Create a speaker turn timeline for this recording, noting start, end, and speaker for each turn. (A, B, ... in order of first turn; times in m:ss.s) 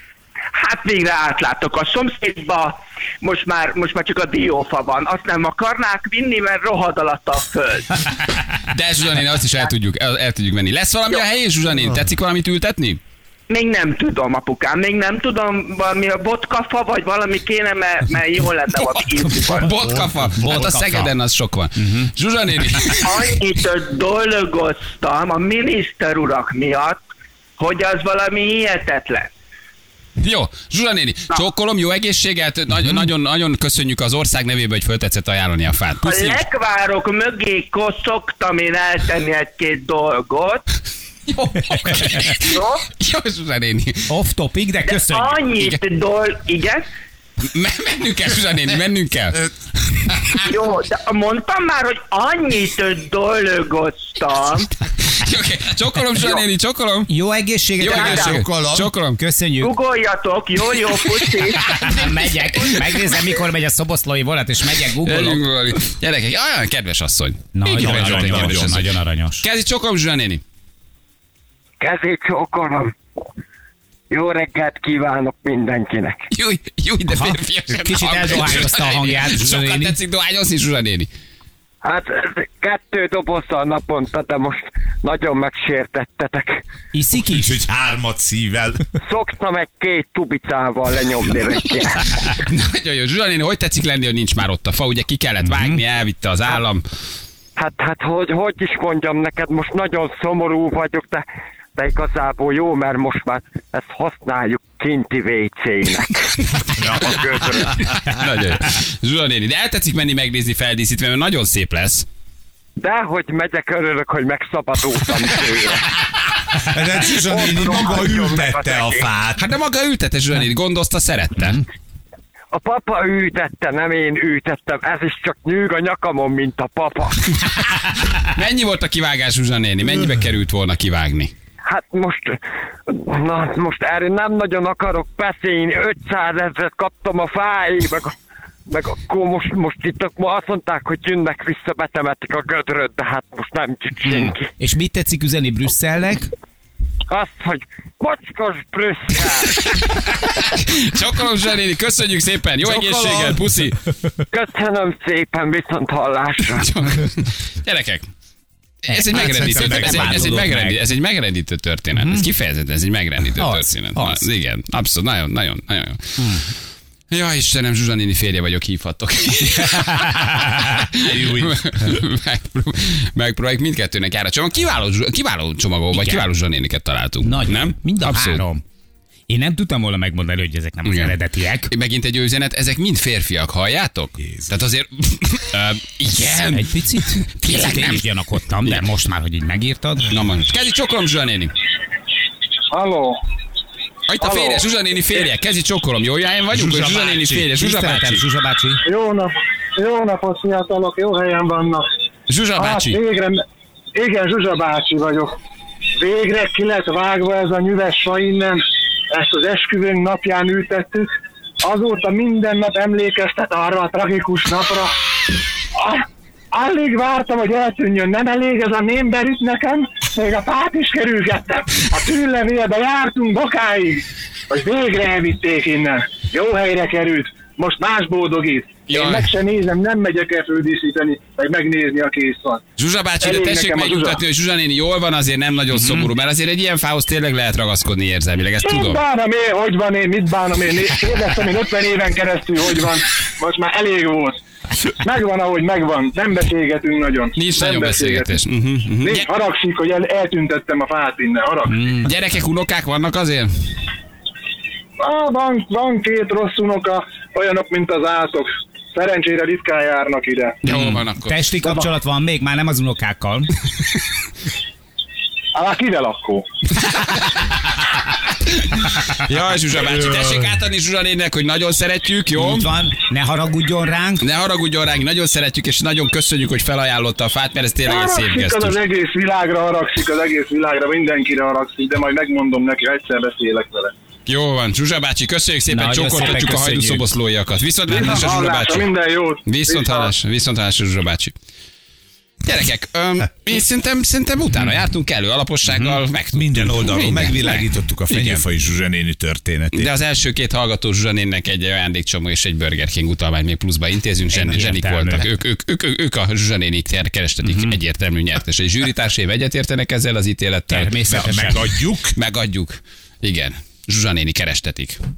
0:00.6-0:07.9 A
0:08.7-0:13.0 B
0:13.5-0:19.8 A
0:18.8-0:23.4 B
0:19.4-0:21.2 C
0:21.8-0:22.1 C
0:23.0-0:27.0 A
0:27.6-0:29.3 A
0:30.2-0:36.4 B
0:36.0-0:40.7 A
0:41.3-0:44.1 B
0:42.4-0:42.9 A
0:44.1-0:45.4 C
0:44.8-0:46.8 A
0:45.5-0:45.8 B
0:47.5-0:49.5 B
0:50.4-0:54.7 A
0:55.1-0:57.1 B
0:57.1-0:58.4 C
0:57.8-0:59.2 B
0:57.8-0:58.9 D
0:59.2-0:59.7 C
0:59.6-1:01.6 A
1:00.8-1:03.0 B
1:01.6-1:05.4 C
1:05.0-1:08.9 B
1:07.5-1:09.5 C
1:07.7-1:08.8 D
1:09.4-1:10.4 B
1:11.8-1:12.9 E
1:14.1-1:16.3 E
1:16.3-1:21.1 B
1:17.1-1:20.0 C
1:21.8-1:26.5 E
1:26.9-1:27.6 C
1:27.2-1:28.8 D
1:29.0-1:32.3 E
1:32.3-1:36.8 B
1:35.4-1:35.8 C
1:37.6-1:47.8 E
1:47.8-1:52.1 B
1:52.8-1:55.9 E
1:56.6-1:59.4 D
1:57.3-1:59.1 E
1:59.4-2:01.6 B
2:02.5-2:07.3 E
2:08.2-2:11.3 B
2:11.6-2:12.4 E
2:12.9-2:18.1 E
2:18.7-2:24.5 E
2:24.6-2:26.3 C
2:27.1-2:29.6 E
2:29.6-2:33.8 B
2:32.6-2:33.4 D
2:34.3-2:36.7 E
2:36.4-2:38.1 B
2:38.8-2:46.4 B
2:39.1-2:40.8 C
2:39.1-2:40.4 D
2:41.9-2:42.3 C
2:43.4-2:44.3 C
2:46.2-2:46.4 C
2:47.1-2:58.4 B
2:51.0-2:52.0 D
2:55.9-2:56.3 C
2:57.2-2:58.6 C
2:59.3-3:01.7 C
3:00.8-3:01.2 B
3:01.7-3:08.0 B
3:04.2-3:04.5 D
3:06.5-3:10.1 C
3:10.1-3:11.5 B
3:12.7-3:13.2 F
3:14.1-3:18.2 B
3:14.2-3:14.6 F
3:16.5-3:17.5 D
3:17.6-3:18.8 C
3:18.8-3:21.9 F
3:22.3-3:23.0 B
3:22.6-3:23.4 F
3:24.0-3:25.3 F
3:26.0-3:31.1 F
3:31.6-3:34.9 F
3:35.8-3:36.0 F
3:36.5-3:52.6 F
3:48.9-3:49.3 B
3:52.8-3:59.0 B
3:53.2-3:54.2 F
3:55.7-3:56.1 C
3:58.6-4:04.4 F
4:05.0-4:08.4 F
4:07.4-4:09.3 B
4:09.0-4:11.8 F
4:11.7-4:12.1 C
4:12.0-4:13.5 B
4:15.0-4:20.6 F
4:20.6-4:21.5 B
4:20.7-4:23.5 C
4:25.6-4:26.5 F
4:28.5-4:32.7 B
4:32.4-4:34.3 C
4:34.2-4:38.8 B
4:37.9-4:43.9 F
4:44.3-4:51.3 B
4:45.7-4:47.1 C
4:47.9-4:50.1 F
4:47.9-4:48.2 C
4:52.4-4:58.4 B
4:55.7-4:56.0 C
4:56.3-4:59.9 D
4:59.7-5:11.0 B
5:04.3-5:05.3 C
5:07.4-5:07.8 C
5:10.7-5:11.6 C
5:11.1-5:12.2 D
5:12.1-5:15.0 B